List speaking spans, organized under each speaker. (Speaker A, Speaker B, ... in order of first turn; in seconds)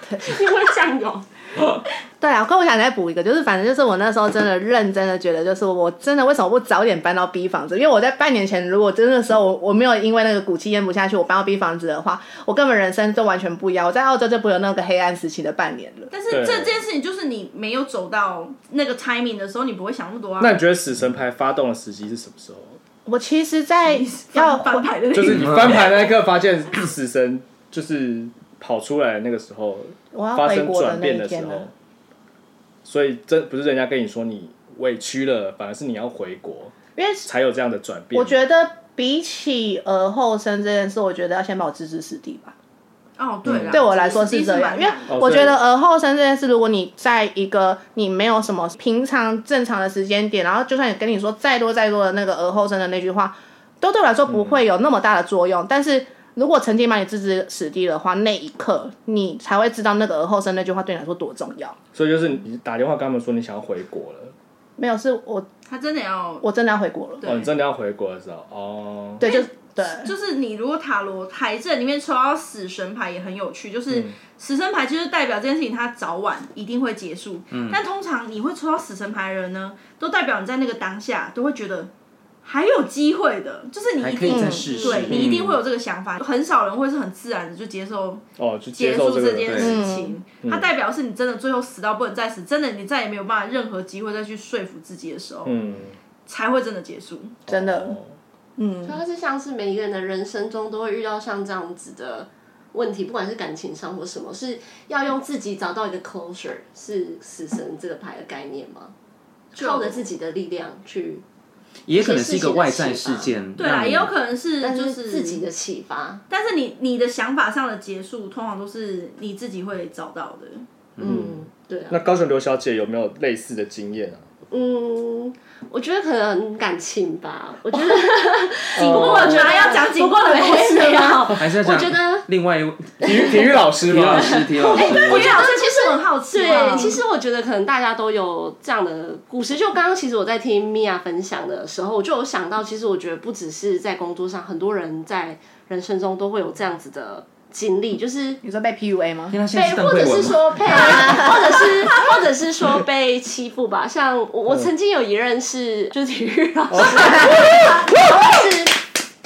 Speaker A: 0.2-1.2, 98.8-108.9, 109.5-111.2, 112.0-113.3, 114.6-116.2, 121.0-122.0, 124.5-132.3, 133.1-133.4, 134.1-148.4, 149.5-158.8
Speaker B: 2.2-16.1, 23.1-25.0, 30.1-31.7, 37.0-37.3, 38.1-42.5, 43.7-61.8, 64.8-65.5, 66.4-67.2, 69.2-70.1, 84.3-85.1, 89.6-90.2, 97.5-98.0, 98.6-99.0, 136.4-136.9, 148.4-149.4, 150.7-151.8, 156.8-157.8
Speaker C: 16.1-20.6, 23.8-25.9, 43.2-45.3, 65.7-66.5, 67.2-67.5, 69.2-81.9, 82.4-95.6, 96.2-97.3, 109.5-110.0, 113.6-115.4, 116.3-120.6, 128.8-131.3, 134.7-137.0
Speaker D: 16.3-16.8, 20.4-22.8, 25.1-31.7, 32.8-36.7, 37.3-38.4, 43.4-43.8, 45.1-45.6, 54.3-54.6, 61.9-64.3, 67.2-69.2, 85.1-85.6, 88.4-90.7, 95.5-95.9, 97.5-98.1, 121.0-124.2, 128.7-129.6, 133.0-134.5, 156.7-157.3
Speaker E: 25.3-25.9, 77.5-77.8, 84.0-85.3, 89.4-89.7, 111.8-114.1, 121.0-121.3, 131.3-135.4, 149.3-151.0